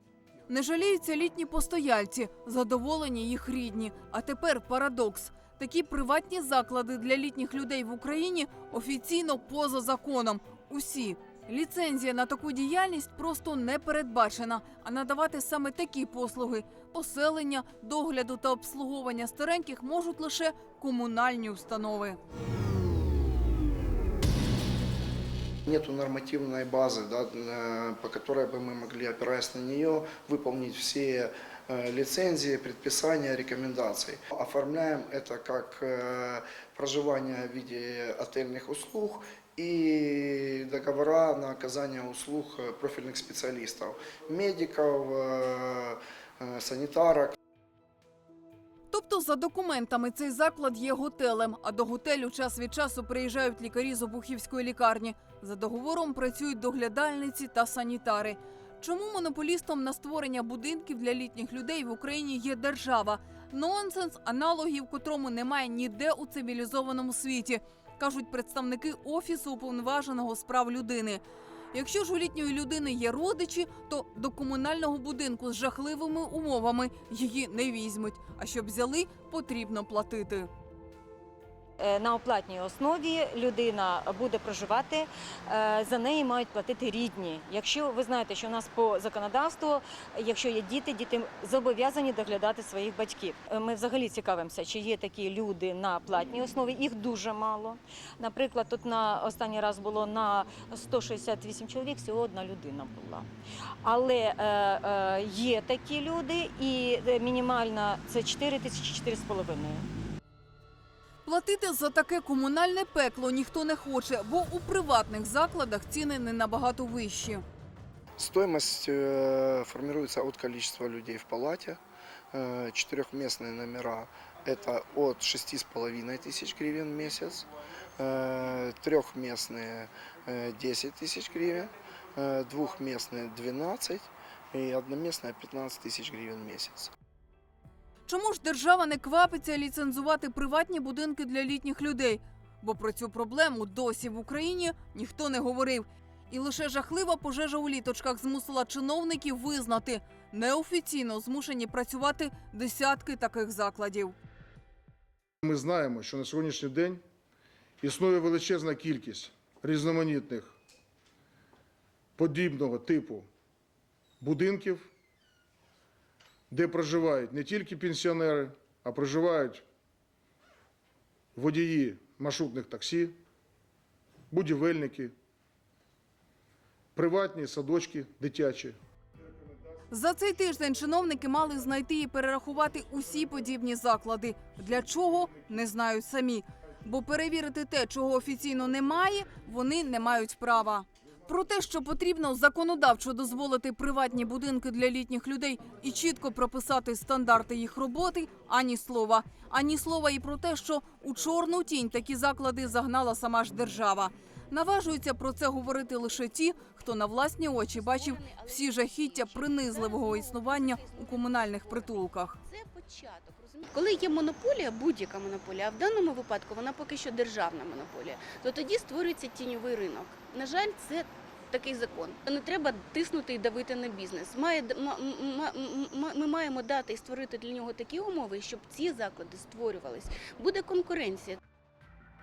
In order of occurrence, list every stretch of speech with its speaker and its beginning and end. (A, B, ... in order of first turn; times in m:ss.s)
0:00.5-0:22.2 A
0:25.7-0:47.4 B
0:48.9-1:11.2 A
1:11.7-1:20.5 A
1:21.8-1:43.3 C
1:43.8-1:49.9 C
1:51.2-1:57.4 A
1:58.2-2:01.8 B
2:02.3-2:16.9 B
2:18.1-2:34.2 A
2:35.4-2:37.0 D
2:37.8-2:40.6 D
2:42.2-2:43.3 D
2:44.2-2:44.9 D
2:46.5-2:49.6 D
2:51.4-2:53.2 D
2:54.3-2:55.1 D
2:57.0-2:58.8 D
2:59.9-3:32.4 A
3:27.7-3:31.9 E
3:32.4-3:51.4 E